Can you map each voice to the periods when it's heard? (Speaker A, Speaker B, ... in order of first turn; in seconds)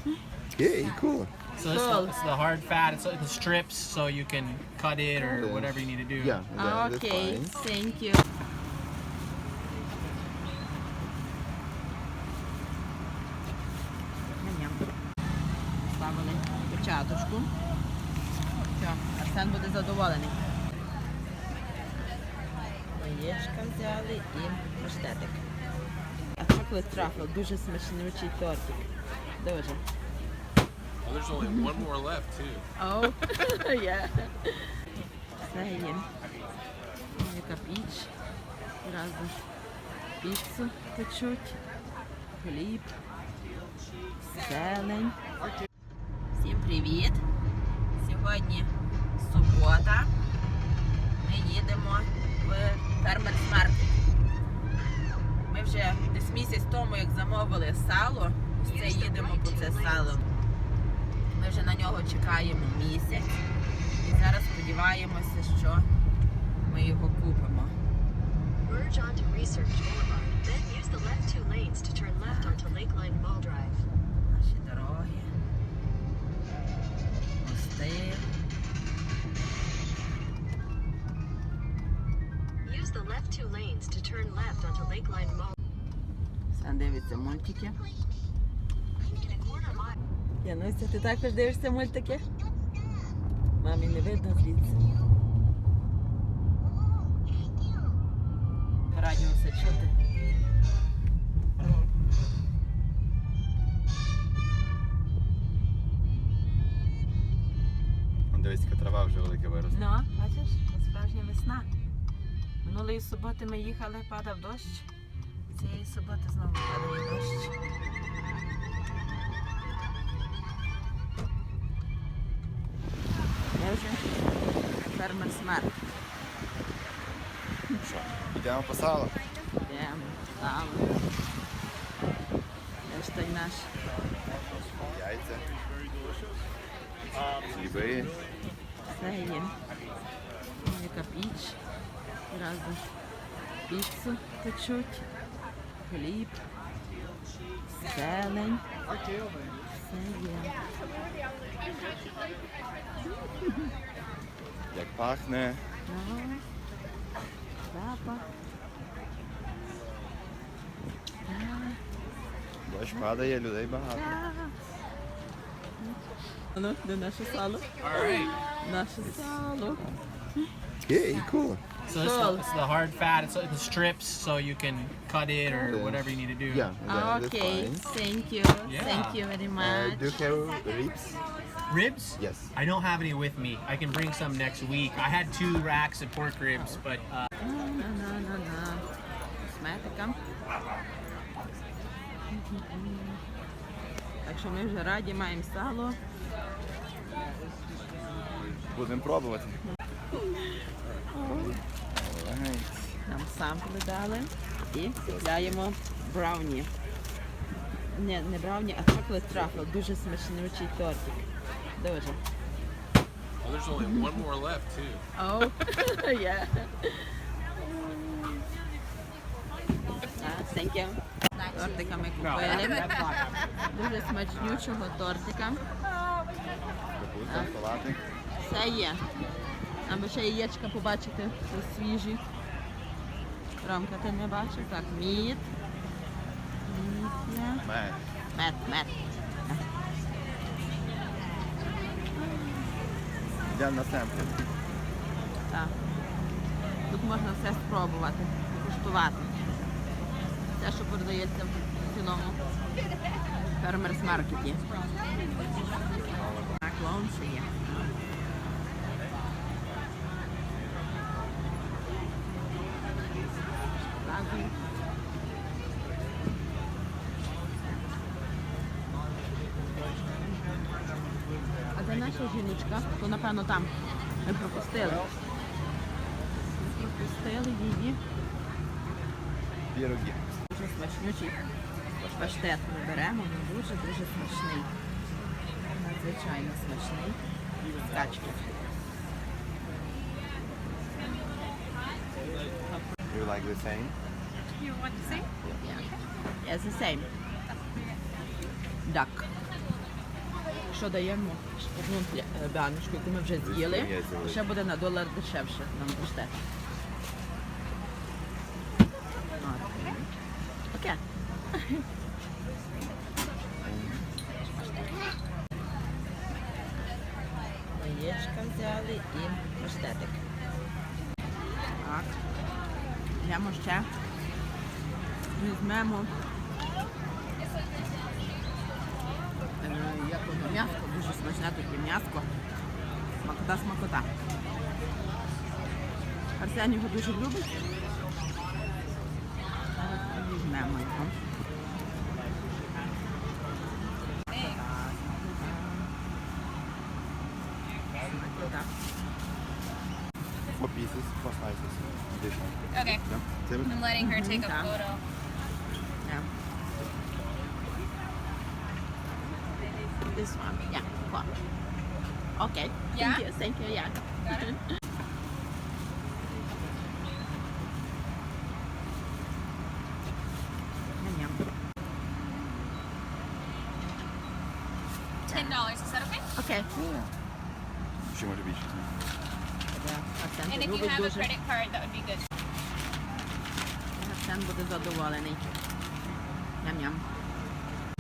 Speaker A: 0.5-1.3, 5.3-7.6, 108.3-109.8, 127.8-129.2, 134.5-135.5, 137.4-138.2, 154.7-155.7, 162.7-164.2, 169.0-169.4, 170.8-171.6, 175.6-177.8, 179.6-181.2, 182.2-182.5, 198.7-199.6, 201.3-202.9, 205.1-205.6, 227.0-228.0, 237.6-238.0, 243.5-244.4, 256.1-256.5, 274.7-275.1, 279.7-280.3, 282.0-282.4, 293.1-294.0, 303.4-304.4, 313.6-314.1, 350.5-353.7, 376.7-377.1, 378.0-378.9
Speaker B: 1.6-6.4, 171.9-176.7, 178.7-179.2, 181.7-187.3, 222.7-223.1
Speaker C: 1.6-2.1, 6.6-8.2, 14.4-14.8, 15.9-17.5, 18.7-20.4, 22.9-25.4, 26.3-29.8, 31.4-31.9, 32.8-34.7, 35.4-36.1, 37.1-38.1, 38.8-39.4, 40.2-41.6, 42.3-43.0, 44.3-45.2, 46.3-47.2, 48.0-50.1, 51.2-53.9, 55.5-60.3, 61.3-63.3, 64.0-65.9, 66.6-67.8, 72.3-72.7, 74.3-75.3, 77.4-78.3, 86.5-87.8, 90.4-92.3, 93.6-94.9, 98.9-100.0, 109.7-111.7, 112.6-114.9, 115.5-117.5, 123.5-124.2, 124.7-125.8, 129.7-131.0, 132.9-133.7, 138.9-139.6, 140.6-141.6, 142.3-142.9, 143.7-145.1, 145.8-146.4, 147.8-148.6, 149.7-150.6, 155.9-156.4, 157.6-158.3, 161.3-161.8, 163.9-164.6, 165.8-169.8, 171.9-172.5, 176.9-180.1, 186.6-186.8, 187.4-188.8, 189.4-190.2, 192.3-193.2, 194.2-196.0, 201.1-201.6, 203.1-206.7, 207.9-212.2, 213.8-214.2, 215.2-218.5, 220.2-222.9, 223.7-225.6, 227.3-227.5, 228.4-229.0, 229.8-232.2, 233.6-235.5, 236.7-237.7, 238.3-238.9, 242.2-242.7, 245.5-245.8, 246.9-249.3, 250.6-252.4, 253.6-254.6, 256.6-257.9, 264.0-264.5, 271.7-275.1, 276.6-278.0, 280.5-281.4, 282.2-284.7, 285.7-287.2, 287.8-288.6, 295.0-295.9, 296.4-297.1, 298.9-299.3, 300.7-306.4, 309.4-310.1, 310.7-311.0, 311.6-311.8, 314.4-314.9, 317.7-320.2, 321.8-322.2, 323.2-323.9, 325.4-326.1, 329.6-332.3, 333.2-334.1, 336.4-337.5, 339.7-341.2, 345.3-345.9, 348.0-348.7, 354.0-354.8, 356.0-356.3, 360.1-361.3, 362.4-364.6, 371.0-371.4, 375.3-375.6, 376.4-376.7, 379.7-381.3, 383.9-385.6, 386.6-387.1
Speaker D: 31.0-32.7, 167.8-168.3, 213.4-215.0
Speaker E: 58.6-60.2, 68.7-73.8, 82.6-85.5, 89.5-90.0
Speaker F: 344.3-344.6, 352.7-353.0, 353.6-355.0, 362.9-363.2, 364.2-364.5, 375.3-376.3, 380.5-382.2